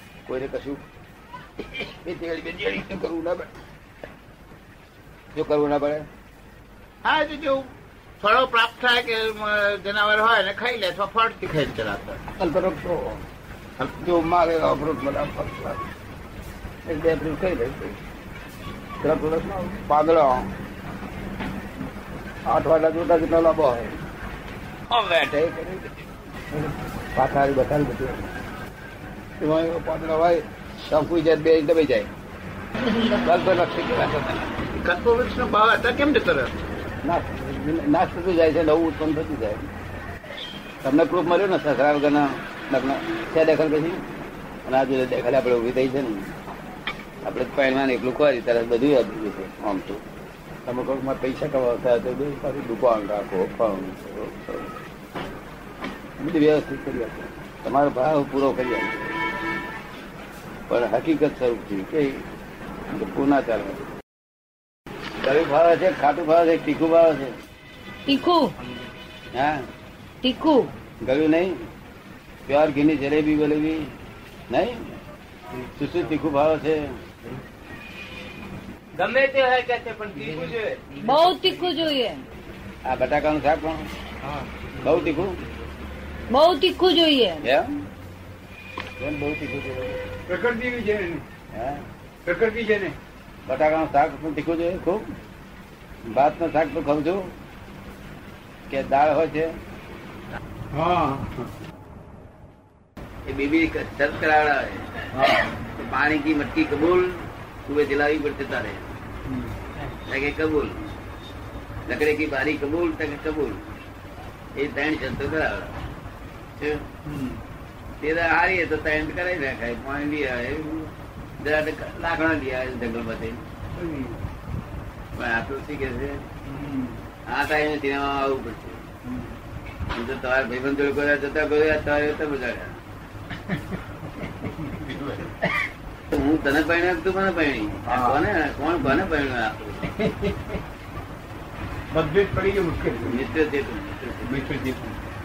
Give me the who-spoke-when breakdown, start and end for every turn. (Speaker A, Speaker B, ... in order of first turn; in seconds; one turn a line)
Speaker A: 0.3-0.8
Speaker A: 1.6-3.5
Speaker A: 5.3-6.1
Speaker B: 7.0-7.7
Speaker B: 8.2-12.2
Speaker A: 12.4-13.2
Speaker A: 13.8-15.8
Speaker A: 16.9-18.0
Speaker A: 19.0-20.5
Speaker A: 22.5-24.0
Speaker A: 24.9-26.0
Speaker A: 27.1-28.3
Speaker A: 29.4-32.1
Speaker A: 33.1-34.5
Speaker B: 34.8-36.6
Speaker A: 37.0-39.7
Speaker A: 40.8-44.0
Speaker A: 44.7-46.3
Speaker A: 47.2-50.0
Speaker A: 50.7-54.7
Speaker A: 56.2-59.1
Speaker A: 60.7-62.2
Speaker A: 62.9-63.9
Speaker A: 65.2-67.4
Speaker C: 68.1-68.5
Speaker A: 69.3-69.7
Speaker C: 70.2-70.7
Speaker A: 71.0-71.5
Speaker A: 72.5-73.9
Speaker A: 74.5-74.8
Speaker A: 75.8-77.0
Speaker D: 78.9-81.7
Speaker C: 81.0-82.2
Speaker A: 82.9-83.9
Speaker A: 84.8-85.4
Speaker C: 86.3-87.4
Speaker A: 87.4-87.7
Speaker A: 89.0-90.0
Speaker E: 90.3-91.2
Speaker A: 91.5-91.8
Speaker E: 92.2-93.0
Speaker A: 93.5-95.1
Speaker A: 96.1-97.3
Speaker A: 98.7-99.5
Speaker E: 100.7-101.5
Speaker A: 103.3-105.1
Speaker E: 105.1-105.5
Speaker A: 105.6-108.9
Speaker E: 109.3-109.5
Speaker A: 110.1-110.9
Speaker A: 111.9-113.7
Speaker A: 114.6-115.8
Speaker A: 116.6-116.8
Speaker E: 117.0-117.4
Speaker A: 118.0-123.4
Speaker E: 123.8-124.2
Speaker A: 125.2-126.2
Speaker E: 126.5-127.0
Speaker A: 127.3-128.8
Speaker E: 129.1-129.3
Speaker A: 129.9-132.8
Speaker E: 134.6-135.4
Speaker A: 136.1-139.8
Speaker E: 137.9-138.2
Speaker E: 139.9-140.6
Speaker E: 141.9-143.2
Speaker A: 143.1-144.3
Speaker E: 144.2-145.0